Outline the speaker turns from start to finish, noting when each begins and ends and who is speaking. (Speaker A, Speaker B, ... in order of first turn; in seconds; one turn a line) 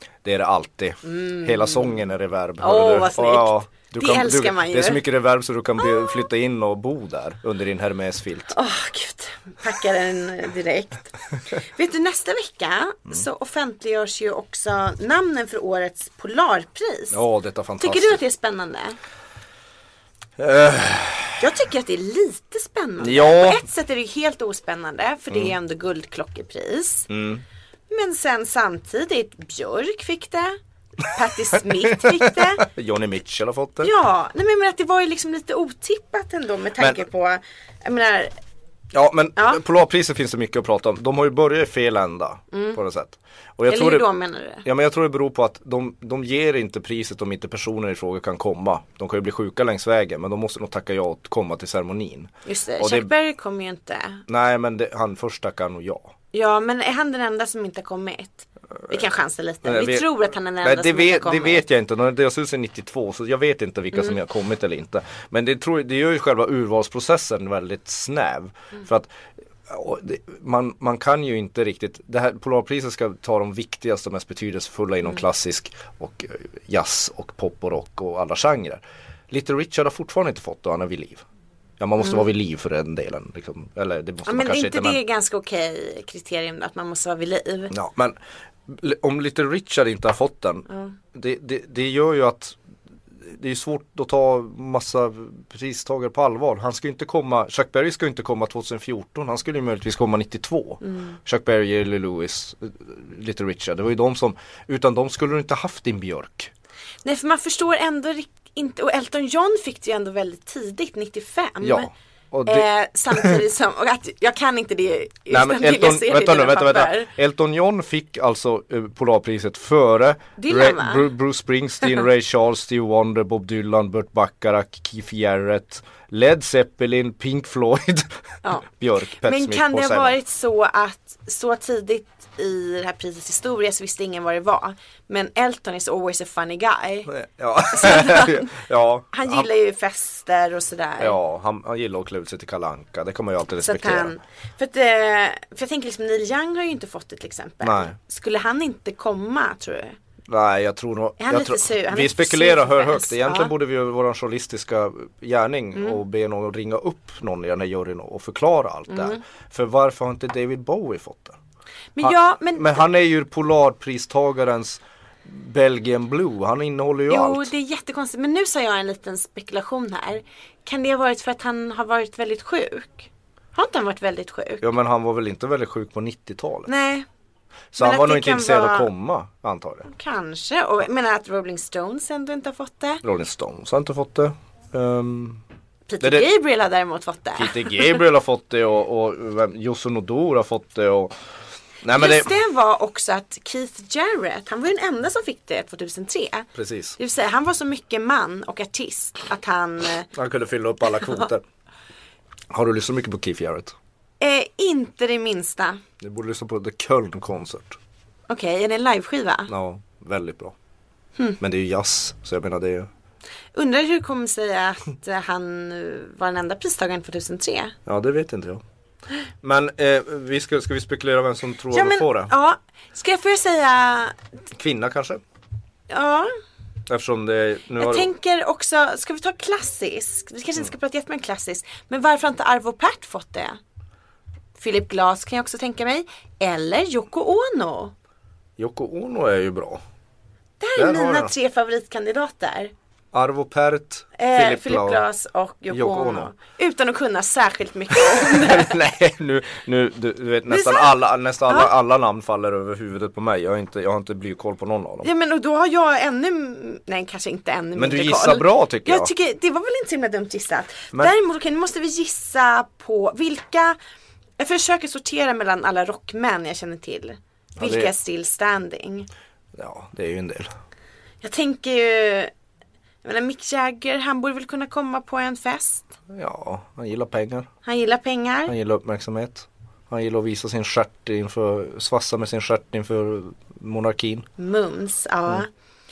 Speaker A: 0.2-8.6
Speaker B: 1.1-2.0
Speaker B: 2.6-5.0
Speaker B: 8.5-17.2
Speaker A: 17.1-18.2
Speaker B: 17.8-19.0
Speaker A: 20.4-21.4
Speaker B: 21.4-27.1
Speaker A: 23.0-23.6
Speaker A: 27.1-27.4
Speaker B: 27.9-32.7
Speaker A: 31.9-33.9
Speaker B: 33.8-38.4
Speaker A: 38.9-44.1
Speaker B: 39.4-39.6
Speaker B: 42.5-42.8
Speaker B: 43.7-44.6
Speaker A: 44.6-53.1
Speaker B: 52.5-54.2
Speaker A: 54.3-56.1
Speaker B: 56.3-61.6
Speaker A: 59.6-69.1
Speaker A: 69.7-81.2
Speaker A: 81.8-85.0
Speaker B: 84.3-87.7
Speaker A: 87.7-92.6
Speaker B: 90.7-91.0
Speaker A: 93.2-106.5
Speaker B: 100.8-101.2
Speaker B: 107.0-111.9
Speaker A: 111.6-113.4
Speaker B: 112.5-117.1
Speaker A: 115.3-130.2
Speaker B: 120.4-121.1
Speaker B: 128.4-137.1
Speaker A: 137.1-139.5
Speaker B: 137.7-138.5
Speaker B: 139.1-141.2
Speaker A: 141.0-144.1
Speaker B: 143.6-150.0
Speaker A: 147.6-148.0
Speaker A: 150.3-161.4
Speaker B: 151.2-153.5
Speaker B: 155.8-156.0
Speaker B: 158.9-159.2
Speaker B: 162.0-162.8
Speaker A: 162.0-167.5
Speaker B: 167.1-174.7
Speaker A: 174.6-176.7
Speaker B: 176.7-177.1
Speaker A: 177.7-179.9
Speaker B: 177.8-178.9
Speaker B: 179.9-183.0
Speaker A: 183.0-185.4
Speaker B: 185.9-187.9
Speaker A: 186.0-186.3
Speaker A: 187.3-191.2
Speaker A: 191.8-192.3
Speaker B: 191.9-200.1
Speaker A: 196.6-197.0
Speaker A: 200.1-201.4
Speaker A: 202.5-203.8
Speaker B: 204.2-205.8
Speaker A: 206.0-207.8
Speaker B: 208.3-209.5
Speaker A: 209.5-210.6
Speaker A: 211.4-212.9
Speaker B: 213.6-217.8
Speaker A: 217.9-218.6
Speaker A: 219.4-222.3
Speaker B: 221.7-224.2
Speaker A: 224.5-225.2
Speaker B: 225.9-226.3
Speaker A: 226.9-228.1
Speaker B: 227.8-233.6
Speaker B: 234.6-237.9
Speaker A: 238.6-239.8
Speaker B: 240.6-242.7
Speaker A: 240.8-241.3
Speaker A: 243.1-245.0
Speaker B: 244.2-248.8
Speaker A: 245.7-246.3
Speaker A: 247.9-255.1
Speaker B: 250.5-250.9
Speaker B: 255.0-263.8
Speaker A: 257.8-259.1
Speaker B: 264.4-269.1
Speaker A: 267.6-267.9
Speaker A: 269.6-270.5
Speaker B: 271.2-272.3
Speaker B: 273.0-275.9
Speaker A: 276.1-277.5
Speaker B: 277.6-278.6
Speaker A: 278.5-284.3
Speaker B: 284.4-285.5